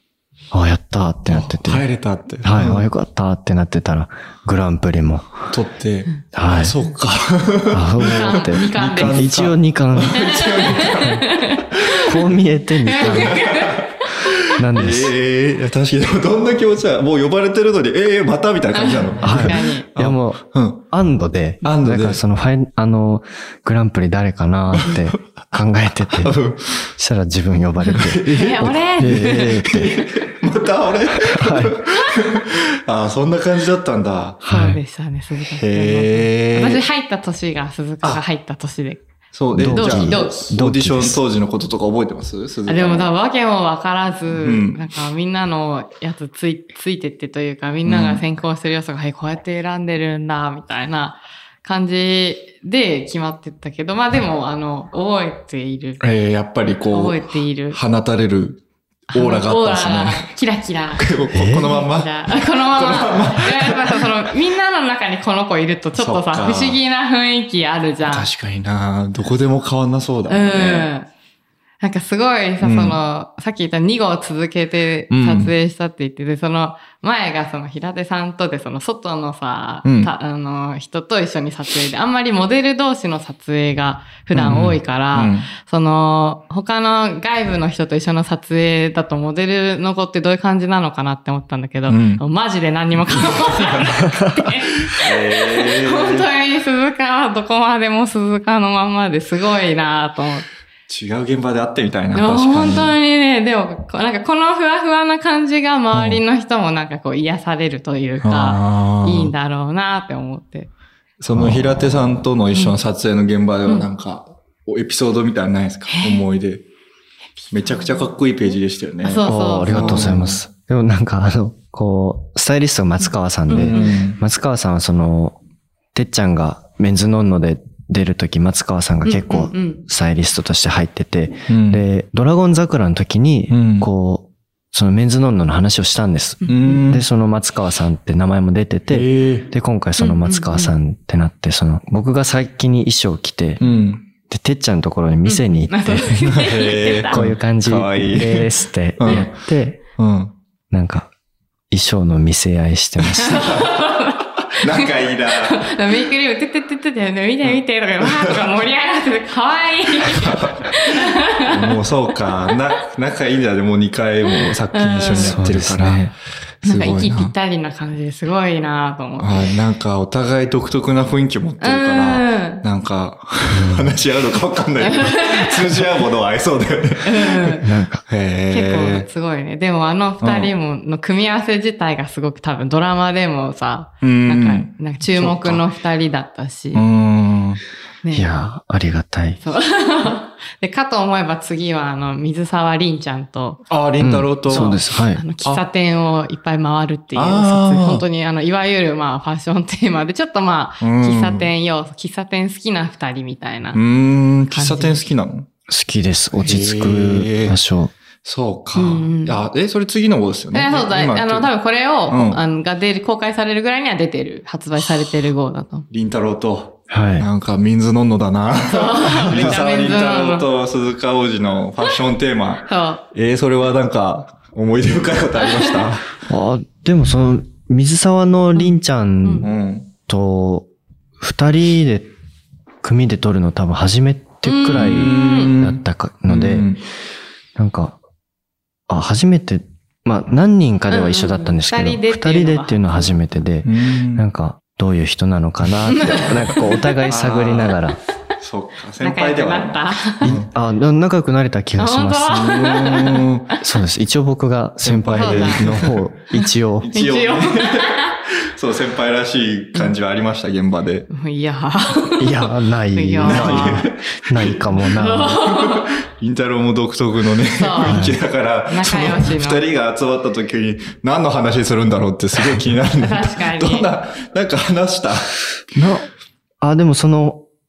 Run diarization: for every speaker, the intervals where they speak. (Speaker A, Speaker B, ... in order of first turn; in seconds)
Speaker A: 0.5-1.8, 2.4-5.3, 6.3-6.8, 7.7-10.2, 11.9-13.4, 14.6-15.2, 19.2-26.4, 27.0-30.0, 31.2-31.8, 34.4-34.8, 39.5-41.2, 61.3-61.8, 111.3-111.8, 119.3-125.4, 125.9-143.6, 144.2-146.3, 147.1-149.8, 150.7-151.1, 151.7-153.5, 165.1-166.1, 173.5-174.0, 177.6-178.0, 188.1-189.4, 194.0-195.2, 205.7-207.9, 216.9-217.3, 219.3-219.6, 226.3-229.5, 230.1-232.1, 232.8-236.7, 237.6-238.0, 238.9-248.0, 250.2-252.5, 253.6-256.9, 262.2-265.4, 267.8-268.2, 275.8-276.1, 276.6-277.4
Speaker B: 1.3-2.9, 5.5-12.2, 13.0-20.8, 21.6-22.2, 24.8-25.2, 26.2-26.9, 27.9-34.8, 35.6-36.8, 39.3-43.1, 44.3-44.8, 47.9-48.2, 56.0-60.3, 61.0-62.1, 62.7-64.1, 66.0-66.8, 68.1-70.9, 72.6-73.0, 75.1-75.5, 79.8-80.1, 84.3-85.5, 91.9-92.2, 93.1-94.0, 94.9-96.3, 100.9-103.0, 105.9-106.2, 108.2-109.3, 111.2-116.7, 117.5-120.4, 123.5-124.2, 131.5-131.8, 133.5-133.9, 136.5-137.0, 138.9-139.5, 143.6-144.1, 146.2-149.3, 150.0-150.3, 153.0-153.8, 154.5-155.8, 157.5-158.4, 160.0-167.3, 169.2-179.1, 180.2-180.5, 184.0-185.7, 186.7-187.6, 193.7-194.8, 197.2-198.1, 200.8-201.5, 203.7-205.5, 206.4-207.6, 208.2-211.5, 212.1-212.4, 215.9-226.1, 229.4-229.9, 234.7-236.8, 243.7-244.2, 247.1-247.8, 248.4-250.5, 252.3-253.5, 254.8-256.0, 256.8-261.1, 263.2-264.6, 265.4-275.4
Speaker C: 8.0-9.3, 10.1-12.1, 12.8-14.1, 18.8-19.9, 27.8-29.6, 34.5-39.0, 39.7-40.4, 42.7-56.0, 56.9-57.8, 59.1-68.3, 70.3-71.1, 71.8-100.5, 102.1-110.7, 115.9-116.2, 117.4-120.2, 123.5-124.0, 129.0-129.8, 136.4-136.8, 140.0-140.7, 145.3-147.2, 153.2-161.8, 162.5-162.8, 164.3-165.4, 166.6-169.6, 171.6-172.6, 174.8-175.9, 177.1-177.7, 178.5-186.8, 188.0-188.3, 189.4-193.6, 194.5-203.8, 204.5-205.0, 208.8-209.4, 210.5-215.9, 218.7-220.5, 222.7-223.0, 225.4-225.8, 228.6-229.5, 234.4-235.6, 240.9-243.2, 245.9-247.1, 249.0-250.4, 251.8-253.3, 255.2-255.7, 256.4-258.2, 261.1-263.9, 264.9-265.9, 267.5-268.1, 268.7-269.6, 273.0-273.9